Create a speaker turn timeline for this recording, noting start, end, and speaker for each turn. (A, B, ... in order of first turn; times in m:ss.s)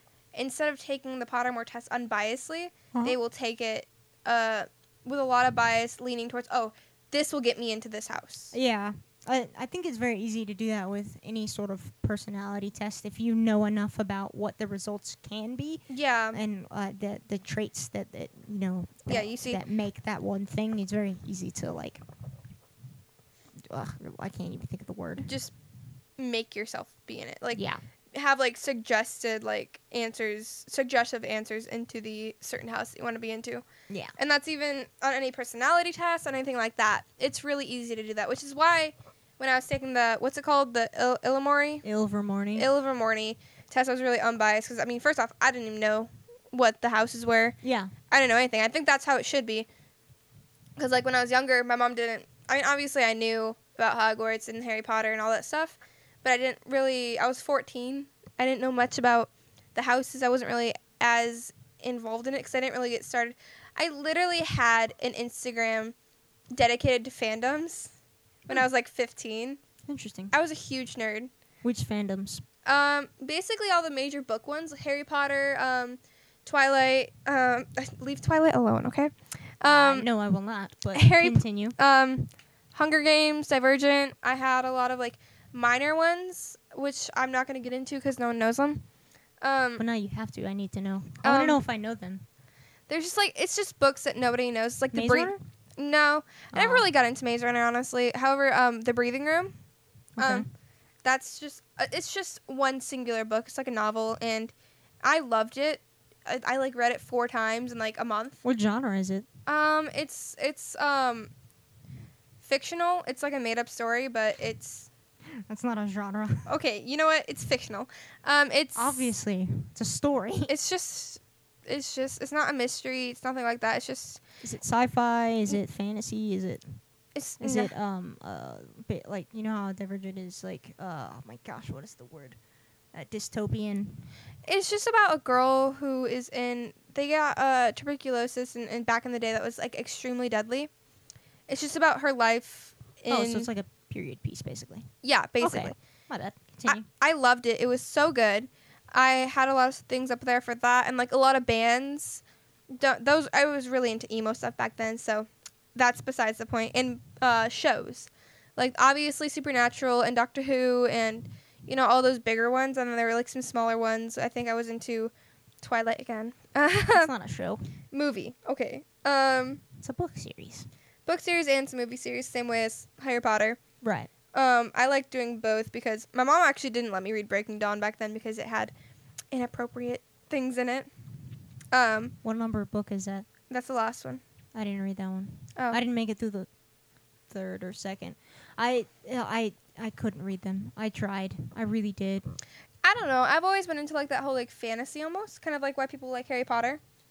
0:00.3-0:08.5 A
0:08.5-0:22.0 B
0:15.9-0:16.4 A
0:19.1-0:19.6 A
0:23.7-0:25.3 B
0:25.2-0:25.5 A
0:26.2-0:27.6 A
0:27.5-0:27.8 B
0:28.1-0:33.6 A
0:34.2-0:41.8 A
0:41.8-0:42.7 B
0:42.6-0:47.6 A
0:47.6-0:47.9 B
0:48.1-0:49.7 A
0:50.8-1:05.9 A
1:06.5-1:07.9 A
1:08.5-1:09.6 A
1:09.9-1:10.3 B
1:10.3-1:11.3 A
1:11.6-1:12.4 B
1:12.6-1:20.1 A
1:19.6-1:21.8 B
1:20.9-1:28.8 A
1:29.4-1:29.8 A
1:29.8-1:32.2 B
1:31.2-1:31.6 A
1:32.9-1:39.5 A
1:34.9-1:35.4 B
1:36.5-1:36.9 B
1:40.2-1:40.5 B
1:40.2-1:40.5 A
1:41.0-1:48.4 A
1:48.4-1:49.3 B
1:49.5-1:51.3 A
1:52.4-1:54.9 A
1:55.5-1:56.5 B
1:56.5-1:59.1 A
1:58.8-2:00.5 B
2:00.5-2:04.2 A
2:04.4-2:06.6 B
2:07.1-2:07.7 A
2:07.4-2:12.4 B
2:12.9-2:14.1 B
2:14.4-2:20.7 A
2:21.5-2:23.5 A
2:23.1-2:24.9 B
2:25.0-2:25.8 A
2:25.4-2:26.8 B
2:26.7-2:47.1 A
2:46.9-2:47.6 B
2:47.9-2:49.6 A
2:49.8-2:50.7 B
2:51.0-2:53.6 A
2:53.8-2:54.1 B
2:54.3-2:58.7 A
2:59.3-3:00.9 A
3:01.7-3:02.1 A
3:02.2-3:03.2 B
3:03.5-3:04.2 A
3:04.5-3:06.5 B
3:07.3-3:12.3 B
3:12.8-3:16.8 A